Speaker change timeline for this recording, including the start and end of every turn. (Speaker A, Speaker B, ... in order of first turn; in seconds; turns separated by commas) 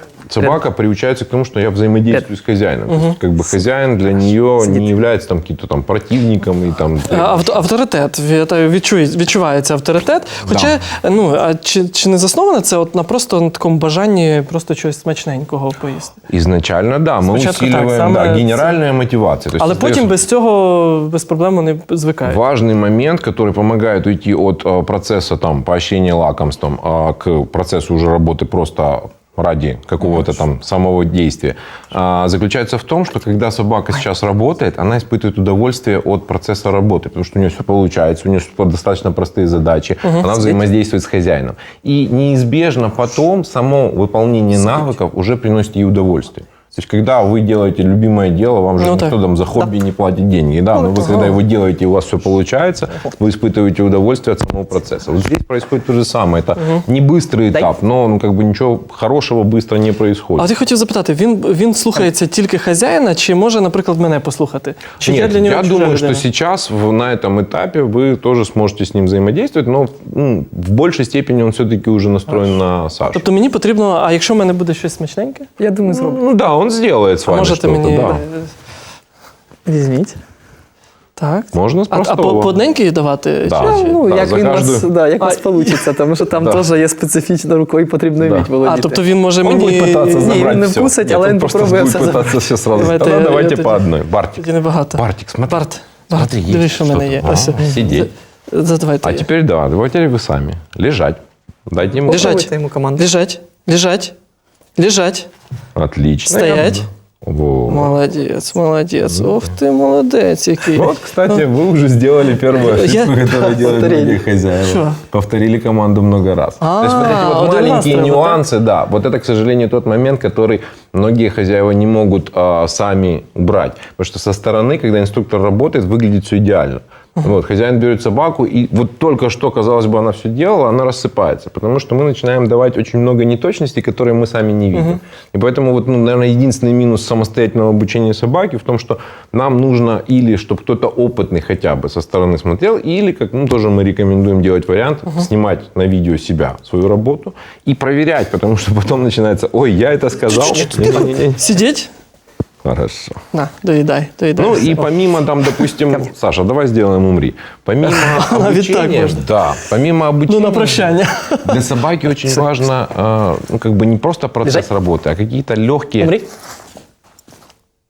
Speaker A: 0.3-7.6, Speaker B: 2.9-3.2, Speaker B: 7.1-16.2, Speaker A: 10.5-10.8, Speaker A: 16.3-20.1, Speaker B: 17.2-18.8, Speaker B: 19.6-22.4, Speaker A: 22.2-60.5, Speaker B: 40.0-40.3, Speaker B: 48.8-49.2, Speaker C: 50.7-51.3, Speaker B: 60.4-66.2, Speaker A: 65.0-73.3, Speaker B: 73.1-75.5, Speaker C: 75.6-76.2, Speaker A: 75.9-78.2, Speaker B: 77.3-78.5, Speaker C: 79.7-80.2, Speaker B: 81.2-84.0, Speaker A: 81.5-82.6, Speaker A: 83.4-84.9, Speaker C: 83.5-89.0, Speaker B: 85.2-85.8, Speaker A: 86.4-86.7, Speaker A: 88.2-88.5, Speaker B: 88.6-90.4, Speaker A: 89.4-98.1, Speaker C: 90.1-92.3, Speaker B: 92.7-93.8, Speaker B: 94.3-99.3, Speaker C: 97.6-97.8, Speaker A: 99.0-102.4, Speaker C: 102.1-103.1, Speaker B: 102.1-104.1, Speaker B: 104.8-105.3, Speaker A: 105.7-107.9, Speaker B: 106.3-106.9, Speaker B: 107.7-111.4, Speaker A: 109.0-109.4, Speaker A: 110.7-151.4, Speaker B: 112.6-113.3, Speaker C: 113.3-114.2, Speaker B: 114.6-115.0, Speaker B: 116.6-118.4, Speaker B: 150.7-151.9, Speaker A: 152.6-153.2, Speaker B: 153.3-154.7, Speaker A: 154.3-166.2, Speaker B: 157.8-159.2, Speaker B: 160.3-161.6, Speaker C: 166.0-166.3